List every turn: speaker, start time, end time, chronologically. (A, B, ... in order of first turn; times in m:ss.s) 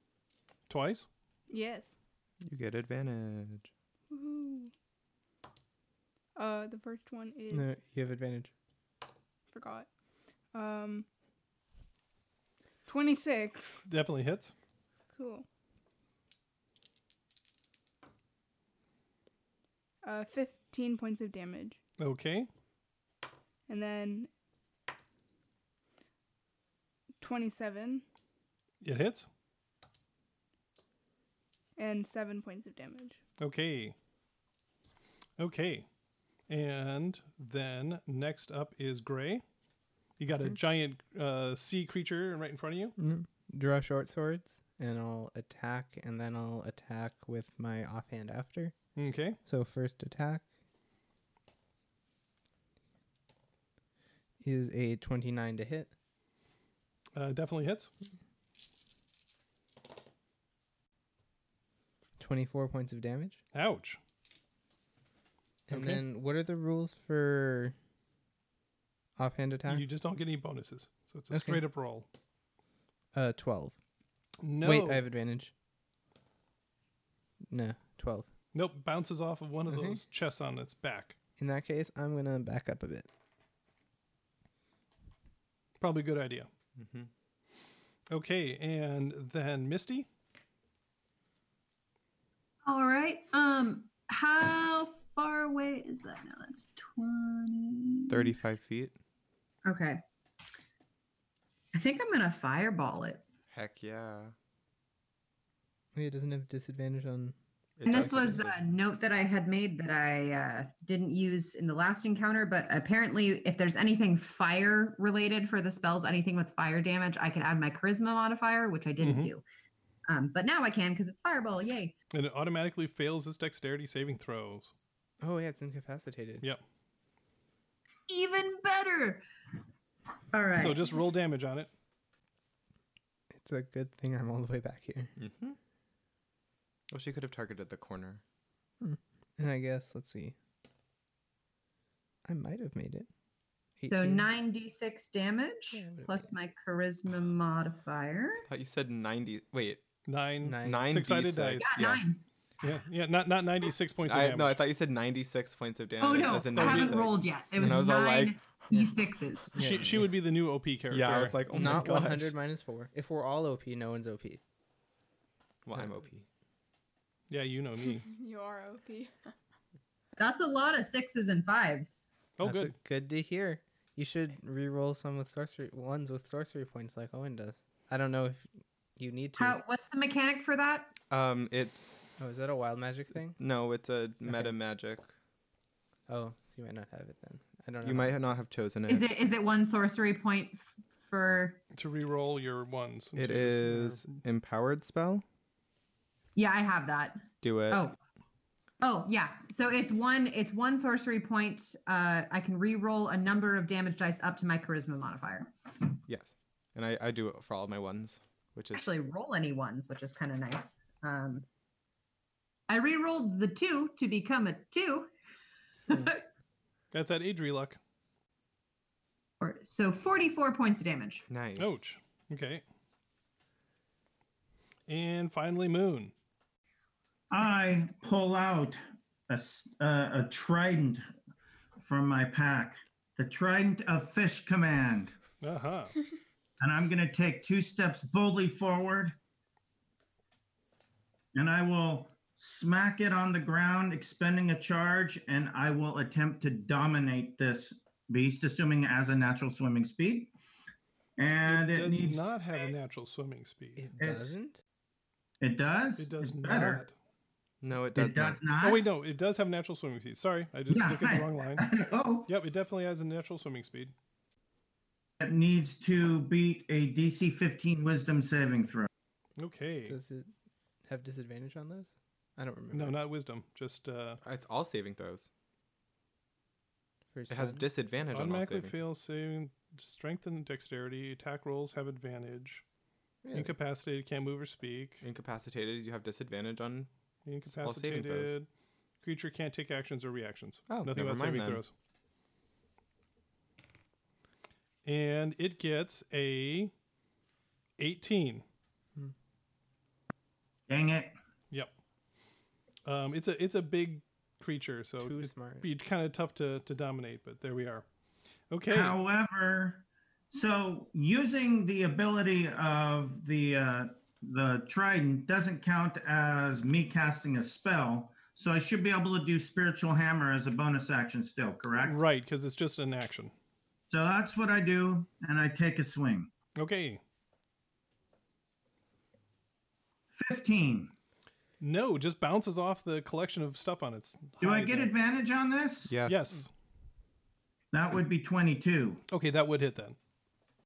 0:00.7-0:01.1 A
0:01.5-0:01.9 B
0:02.4-0:03.7 C
0:04.1-0:04.7 B
0:06.4-0:07.7 B
0:07.5-0:08.5 D
0:09.5-0:09.9 B
0:10.5-0:11.1 B
0:12.9-0:13.8 B
0:13.8-0:14.5 A
0:15.1-0:15.5 B
0:20.0-0:21.8 B
0:22.0-0:22.5 A
0:23.7-0:24.3 B
0:27.2-0:28.0 B
0:28.8-0:29.3 A
0:31.8-0:33.2 B
0:33.4-0:34.0 A
0:35.4-0:35.9 A
0:36.5-0:39.4 A
0:40.2-0:43.0 A
0:43.0-0:48.7 D
0:49.0-0:49.4 A
0:49.5-0:50.4 D
0:54.4-0:55.9 D
0:57.2-0:57.9 A
1:02.2-1:03.4 D
1:03.5-1:04.0 A
1:05.7-1:07.8 D
1:05.7-1:06.0 A
1:09.2-1:09.9 D
1:09.7-1:12.1 A
1:11.3-1:11.6 D
1:13.1-1:13.8 D
1:14.4-1:15.0 A
1:14.6-1:15.5 D
1:17.5-1:18.3 D
1:18.6-1:21.2 A
1:19.7-1:20.0 D
1:21.4-1:23.1 D
1:25.8-1:26.5 A
1:26.8-1:27.1 C
1:28.1-1:30.1 A
1:32.7-1:38.4 E
1:38.1-1:39.0 C
1:39.6-1:40.0 E
1:41.7-1:43.2 E
1:43.5-1:44.4 C
1:46.0-1:47.3 D
1:47.8-1:48.6 C
1:47.8-1:59.4 E
1:59.0-1:59.3 A
2:00.1-2:01.9 E
2:02.1-2:04.7 A
2:05.2-2:06.4 D
2:08.1-2:09.2 E
2:10.3-2:11.0 E
2:10.6-2:11.7 A
2:13.3-2:15.1 D
2:15.2-2:15.6 C
2:16.9-2:18.2 C
2:18.8-2:20.4 D
2:22.3-2:23.1 D
2:23.8-2:24.3 D
2:23.9-2:28.4 E
2:25.7-2:26.3 D
2:28.5-2:29.8 C
2:30.1-2:31.7 A
2:30.4-2:31.0 D
2:30.6-2:32.1 C
2:31.6-2:32.2 E
2:32.6-2:34.6 A
2:34.0-2:38.7 C
2:36.0-2:39.6 E
2:36.6-2:37.1 A
2:39.5-2:40.1 D
2:39.5-2:42.3 A
2:40.9-2:42.3 C
2:41.5-2:44.4 D
2:45.7-2:46.3 C
2:47.3-2:48.1 A
2:48.0-2:49.3 B
2:50.2-2:52.1 E
2:52.4-2:52.8 A
2:52.4-2:59.6 D
2:59.4-3:00.9 E
3:01.1-3:02.8 C
3:02.2-3:03.4 D
3:03.4-3:05.1 C
3:04.2-3:04.6 D
3:06.1-3:08.2 D
3:07.8-3:09.1 C
3:08.9-3:11.6 E
3:11.7-3:14.1 A
3:13.2-3:15.2 C
3:16.4-3:18.0 E
3:17.4-3:17.9 C
3:18.8-3:25.5 E
3:26.1-3:28.9 C
3:28.7-3:31.5 E
3:32.7-3:35.1 E
3:35.9-3:36.2 E
3:36.9-3:37.8 A
3:39.4-3:41.3 E
3:41.3-3:41.8 C
3:41.6-3:42.6 A
3:44.9-3:46.1 A
3:47.3-3:51.0 F
3:51.8-3:55.1 F
3:55.4-3:55.9 A
3:56.6-3:59.2 F
4:01.3-4:10.3 F
4:11.2-4:12.3 F
4:11.5-4:13.9 A
4:13.8-4:14.6 D
4:14.0-4:14.3 F
4:15.4-4:16.8 F
4:16.0-4:16.9 A
4:17.6-4:18.4 C
4:17.9-4:18.9 F
4:18.6-4:21.7 A
4:20.7-4:22.3 F
4:22.3-4:23.9 A
4:25.2-4:28.9 F
4:29.4-4:30.0 A
4:29.9-4:30.3 D
4:30.9-4:33.0 D
4:32.7-4:34.2 A
4:34.2-4:35.3 C
4:37.1-4:37.6 D
4:37.3-4:38.8 C
4:38.1-4:42.6 A
4:43.2-4:43.5 D
4:43.3-4:45.0 A
4:45.0-4:46.9 C
4:47.2-4:48.5 A
4:47.4-4:48.4 C
4:49.0-4:51.7 A
4:50.7-4:51.6 C
4:54.8-4:56.7 A
4:57.8-4:58.4 A
5:00.7-5:01.2 F
5:02.8-5:07.8 A
5:05.0-5:05.7 D
5:08.5-5:09.0 A
5:08.7-5:22.0 F
5:21.8-5:23.3 A
5:23.9-5:26.3 F
5:26.6-5:27.0 A
5:30.1-5:30.9 F
5:31.6-5:34.9 A
5:34.4-5:36.0 F
5:35.9-5:36.4 C
5:36.1-5:36.5 A
5:37.7-5:39.0 F
5:39.1-5:40.0 A